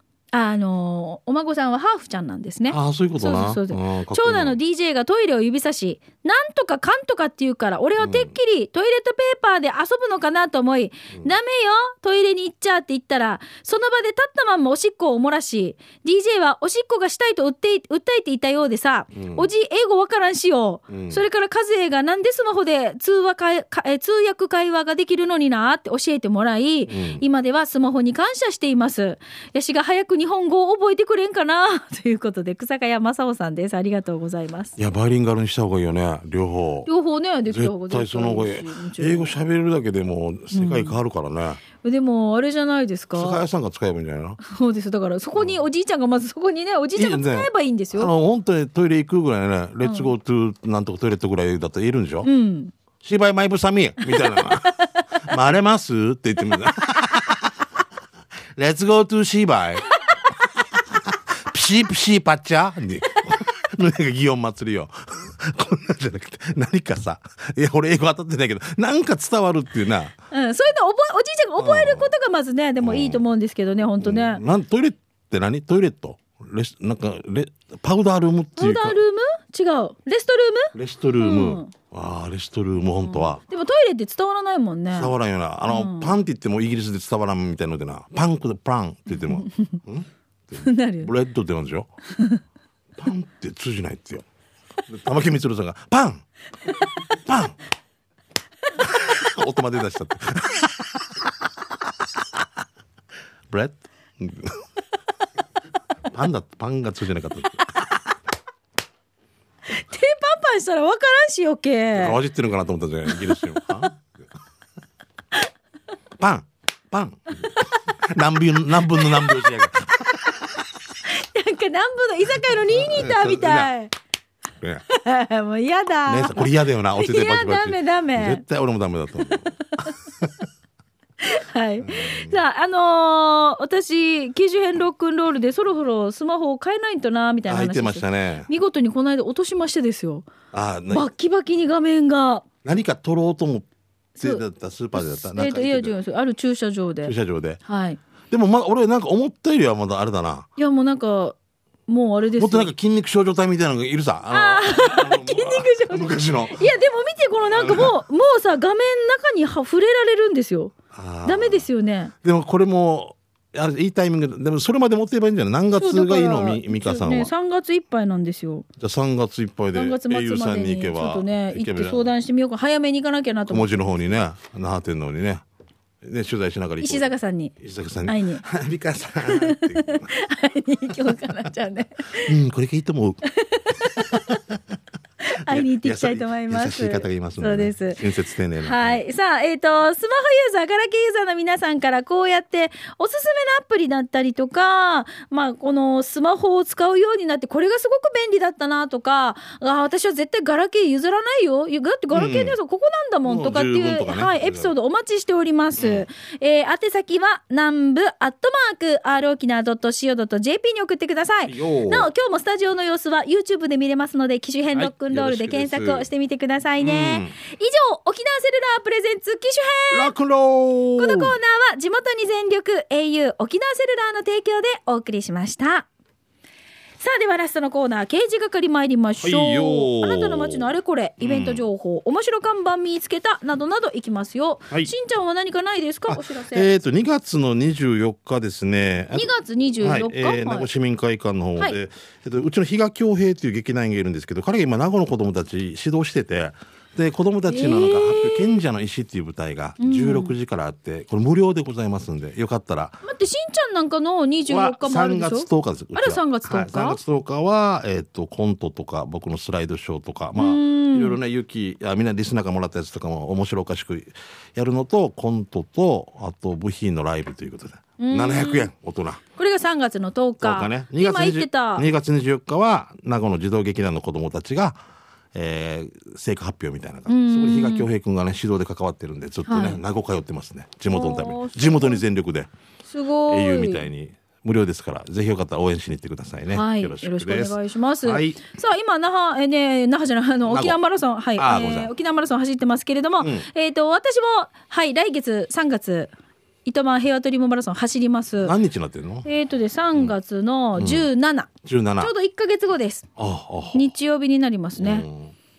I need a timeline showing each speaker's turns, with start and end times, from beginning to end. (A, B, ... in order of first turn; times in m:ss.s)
0:00.3-0:34.8 A
0:02.7-0:04.6 B
0:08.0-0:08.3 B
0:19.2-0:19.5 B
0:20.9-0:21.2 B
0:26.9-0:27.2 B
0:34.8-0:36.9 B
0:36.9-0:39.4 A
0:37.5-0:41.6 B
0:40.5-0:41.0 A
0:41.8-0:43.4 A
0:43.2-0:44.4 B
0:44.4-0:48.1 A
0:47.0-0:52.3 B
0:49.8-0:50.1 A
0:52.2-0:52.7 A
0:53.0-0:57.5 B
0:58.6-0:59.9 B
1:01.0-1:10.2 B
1:10.3-1:14.4 A
1:11.6-1:12.1 B
1:12.8-1:13.2 B
1:14.0-1:19.0 B
1:18.6-1:21.7 A
1:20.7-1:23.4 B
1:23.0-1:25.1 A
1:24.9-1:31.9 B
1:25.7-1:26.2 A
1:29.3-1:29.8 A
1:30.6-1:31.1 A
1:32.1-1:32.4 A
1:33.0-1:34.2 B
1:34.9-1:36.2 B
1:37.1-1:37.6 B
1:38.8-1:41.3 B
1:43.5-1:44.6 B
1:46.1-1:47.7 B
1:49.7-1:52.2 A
1:52.0-1:54.2 B
1:53.1-1:53.4 A
1:56.2-2:00.7 B
1:59.0-1:59.4 A
2:00.0-2:00.3 A
2:01.0-2:03.9 A
2:02.4-2:03.7 B
2:04.9-2:08.4 A
2:06.1-2:10.3 B
2:09.3-2:10.0 A
2:11.2-2:20.3 A
2:11.8-2:12.4 B
2:17.5-2:18.5 B
2:20.5-2:21.1 B
2:20.9-2:22.5 A
2:22.6-2:23.7 B
2:24.2-2:26.0 B
2:25.0-2:27.1 A
2:27.0-2:27.6 B
2:27.7-2:28.0 A
2:28.3-2:30.5 B
2:30.6-2:32.7 A
2:32.4-2:36.6 B
2:34.3-2:40.7 A
2:37.5-2:38.0 B
2:40.9-2:41.7 B
2:41.2-2:42.1 A
2:42.2-2:47.3 B
2:45.8-2:48.7 A
2:48.8-2:52.1 B
2:49.7-2:53.8 A
2:53.5-2:55.4 B
2:56.0-3:00.1 B
2:56.8-2:57.6 A
2:58.1-2:58.4 A
2:59.3-3:02.4 A
3:02.2-3:03.2 B
3:03.3-3:04.4 A
3:03.9-3:04.6 B
3:05.2-3:08.0 A
3:05.5-3:09.0 B
3:08.6-3:40.1 A
3:22.1-3:22.6 B
3:23.2-3:24.7 B
3:25.8-3:26.1 B
3:31.5-3:32.1 B
3:34.7-3:36.1 B
3:36.8-3:37.3 B
3:39.9-3:41.4 B
3:41.0-3:45.9 A
3:47.0-3:56.7 A
3:49.2-3:51.6 B
3:56.1-4:13.0 B
3:59.1-4:00.7 A
4:07.5-4:08.6 A
4:09.8-4:10.3 A
4:13.0-4:17.0 A
4:14.5-4:29.2 B
4:20.4-4:21.2 A
4:28.0-4:28.7 A
4:29.4-4:31.9 A
4:30.4-4:34.8 B
4:35.3-4:42.5 B
4:37.1-4:37.9 A
4:39.5-4:39.8 A
4:40.9-4:42.0 A
4:42.9-4:43.9 A
4:43.3-4:48.4 B
4:46.5-4:56.1 A
4:50.5-4:50.8 B
4:51.4-4:51.9 B
4:53.2-4:53.5 B
4:56.6-4:58.5 A
4:58.4-4:59.3 B
4:59.2-5:03.1 A
5:00.8-5:01.1 B
5:01.6-5:02.1 B
5:03.2-5:03.9 B
5:03.7-5:05.1 A
5:04.8-5:05.3 B